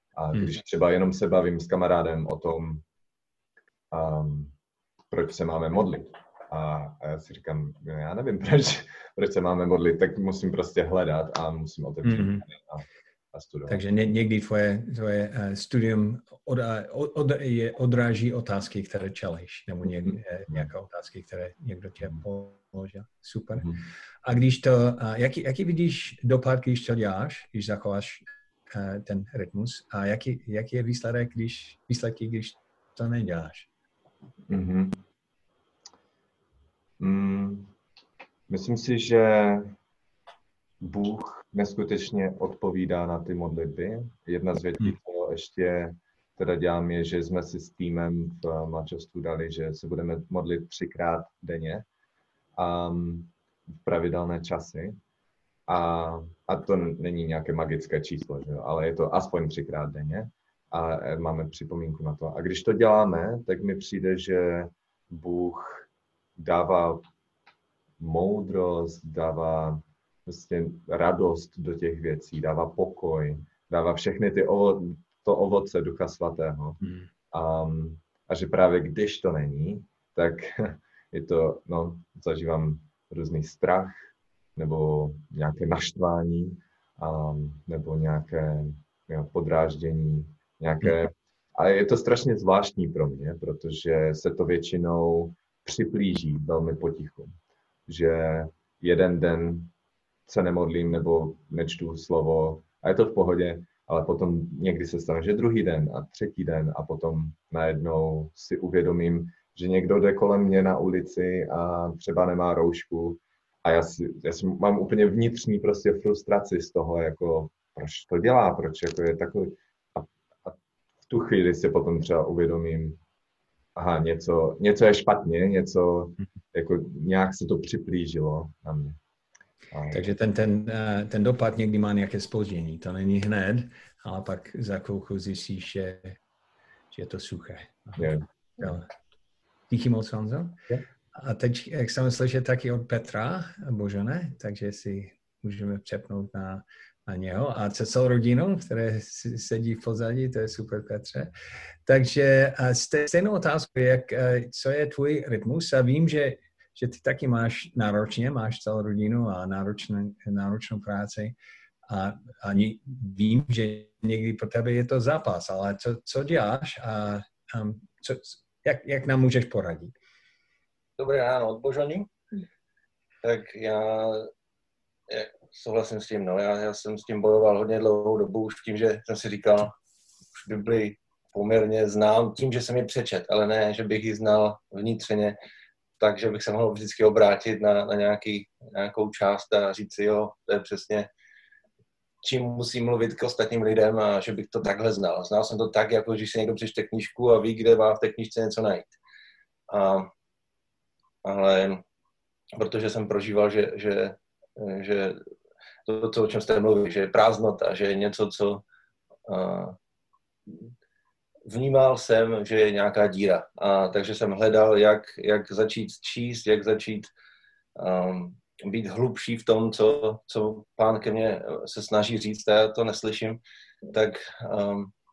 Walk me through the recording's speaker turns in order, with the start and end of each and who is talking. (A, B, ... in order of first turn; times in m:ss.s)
0:00.2-0:02.8 A
0:03.9-0:04.5 A
0:05.1-0:13.8 A
0:12.0-0:12.4 B
0:13.7-0:23.7 B
0:24.2-0:33.7 B
0:34.5-0:35.0 A
0:37.0-0:37.7 A
0:38.5-0:39.8 A
0:40.8-0:51.9 A
0:52.6-0:55.0 A
0:55.7-1:07.1 A
1:08.0-1:37.4 A
1:16.8-1:17.1 B
1:37.9-1:39.7 A
1:40.3-2:00.6 A
2:01.1-2:03.0 A
2:03.8-2:09.0 A
2:09.7-2:10.1 A
2:09.9-2:16.2 B
2:16.9-2:18.9 B
2:18.0-2:18.2 A
2:19.7-2:20.6 B
2:21.1-2:31.3 B
2:31.9-2:41.4 B
2:41.9-2:50.0 B
2:51.0-2:52.1 C
2:53.2-2:54.3 C
2:55.1-2:59.7 C
3:00.4-3:05.4 C
3:06.0-3:11.1 C
3:12.2-3:19.0 C
3:19.7-3:20.1 C
3:21.2-3:21.8 C
3:22.6-3:25.2 C
3:25.9-3:28.6 C
3:29.3-3:29.8 C
3:31.5-3:37.1 C
3:37.8-3:44.9 C